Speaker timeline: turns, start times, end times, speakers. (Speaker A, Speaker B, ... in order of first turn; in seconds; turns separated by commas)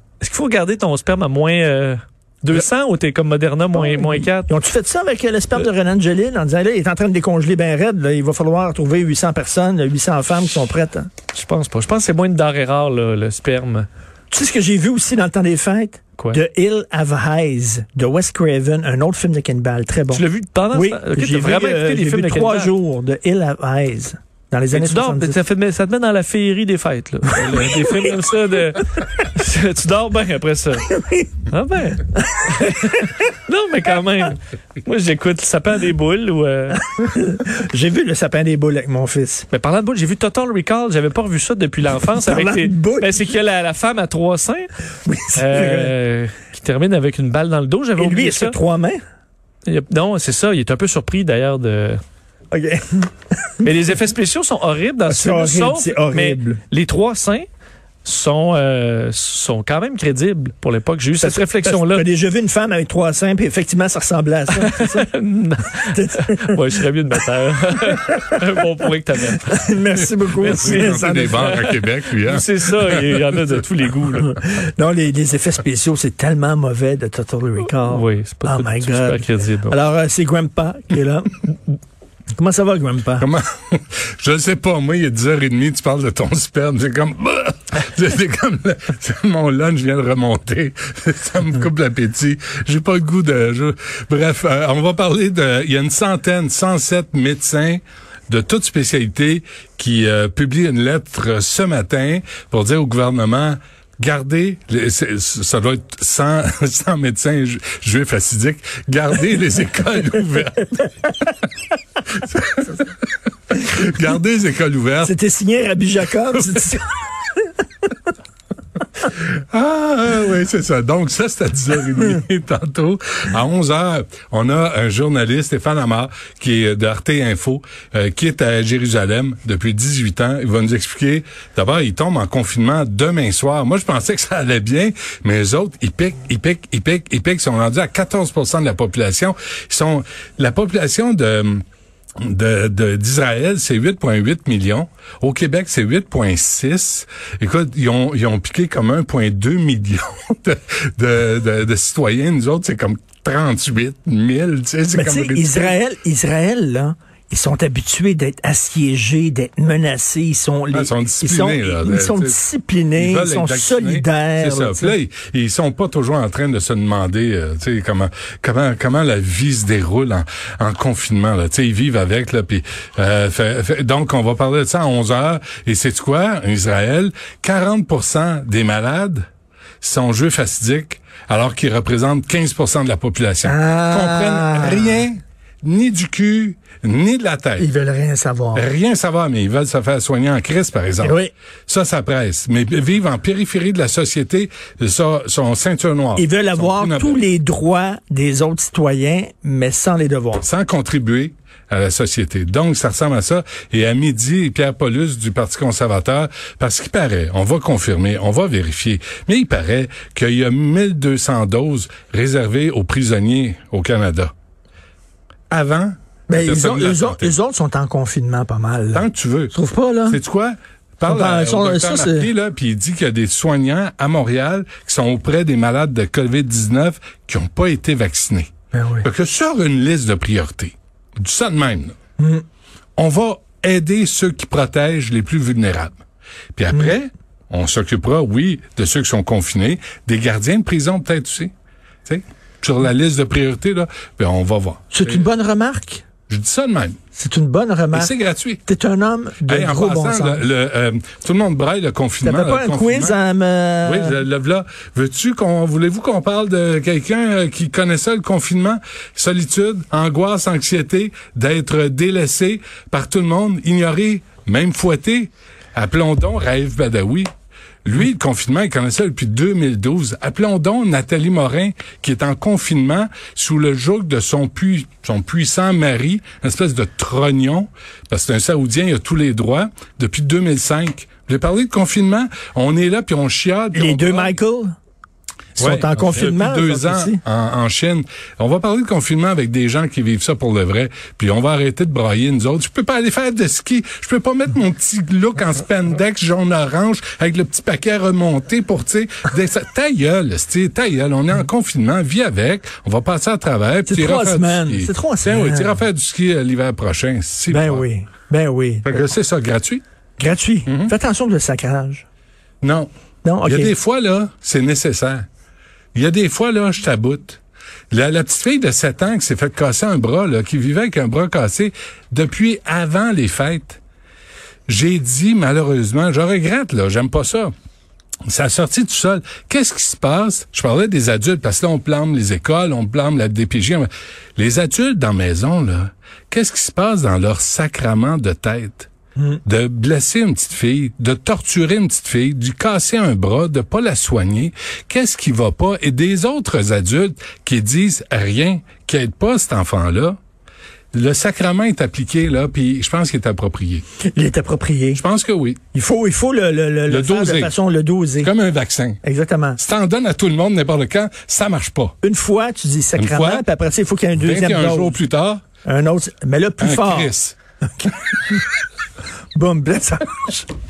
Speaker A: 0.2-4.5, Speaker B: 3.7-11.1, Speaker A: 11.3-13.9, Speaker B: 14.3-25.4, Speaker A: 20.1-22.7, Speaker A: 24.7-30.9, Speaker B: 30.9-31.3, Speaker A: 31.4-36.8, Speaker B: 32.3-33.1, Speaker B: 36.8-39.5, Speaker A: 39.5-44.7, Speaker B: 42.1-43.3, Speaker B: 45.0-45.9, Speaker A: 45.3-48.5, Speaker B: 48.0-49.0, Speaker A: 49.6-52.0, Speaker B: 52.5-53.6, Speaker A: 53.6-57.5, Speaker B: 55.1-56.6, Speaker A: 58.0-62.0, Speaker B: 61.2-65.1, Speaker A: 64.6-69.6, Speaker B: 65.9-66.6, Speaker B: 69.4-71.4, Speaker A: 70.4-74.4, Speaker C: 70.5-73.2, Speaker B: 74.2-81.5, Speaker A: 77.9-79.8, Speaker B: 82.4-83.3, Speaker C: 83.2-111.2, Speaker C: 112.1-112.8, Speaker C: 113.5-115.1, Speaker B: 115.0-117.5, Speaker C: 119.5-141.6, Speaker C: 142.2-155.8, Speaker B: 154.9-164.9, Speaker C: 160.7-162.4, Speaker C: 162.9-179.2, Speaker C: 179.8-187.7, Speaker B: 183.4-185.1, Speaker B: 187.6-188.6, Speaker C: 188.5-197.2, Speaker B: 191.0-191.3, Speaker B: 196.2-200.4, Speaker C: 200.4-214.3, Speaker C: 215.5-217.3, Speaker B: 216.3-220.2, Speaker C: 218.9-219.5, Speaker C: 220.1-228.5, Speaker B: 221.1-222.3, Speaker B: 228.7-229.1, Speaker C: 229.0-231.9, Speaker C: 233.0-236.0, Speaker C: 236.5-241.5, Speaker C: 242.1-245.2, Speaker B: 244.9-246.0, Speaker C: 246.3-247.0, Speaker B: 247.1-250.4, Speaker C: 247.9-248.6, Speaker C: 249.5-253.1, Speaker B: 252.2-254.2, Speaker C: 253.8-267.3, Speaker C: 267.8-284.3, Speaker B: 283.7-284.7, Speaker C: 285.6-307.8, Speaker B: 285.6-287.2, Speaker B: 303.9-305.8, Speaker B: 307.5-309.1, Speaker C: 308.8-309.8, Speaker B: 310.2-312.0, Speaker C: 312.6-312.9, Speaker B: 313.2-313.7, Speaker C: 313.4-315.2, Speaker C: 315.9-317.4, Speaker C: 317.9-323.8, Speaker C: 324.7-327.5, Speaker C: 328.3-338.9, Speaker C: 339.4-350.2, Speaker C: 350.9-353.8, Speaker B: 354.0-355.0, Speaker C: 354.9-355.6, Speaker B: 355.7-358.3, Speaker C: 356.9-357.5, Speaker C: 358.2-359.0, Speaker B: 359.0-359.6, Speaker C: 359.6-361.9, Speaker B: 362.0-365.0, Speaker C: 362.9-363.4, Speaker C: 364.2-365.4, Speaker B: 365.6-367.1, Speaker C: 366.6-367.4, Speaker B: 369.3-370.5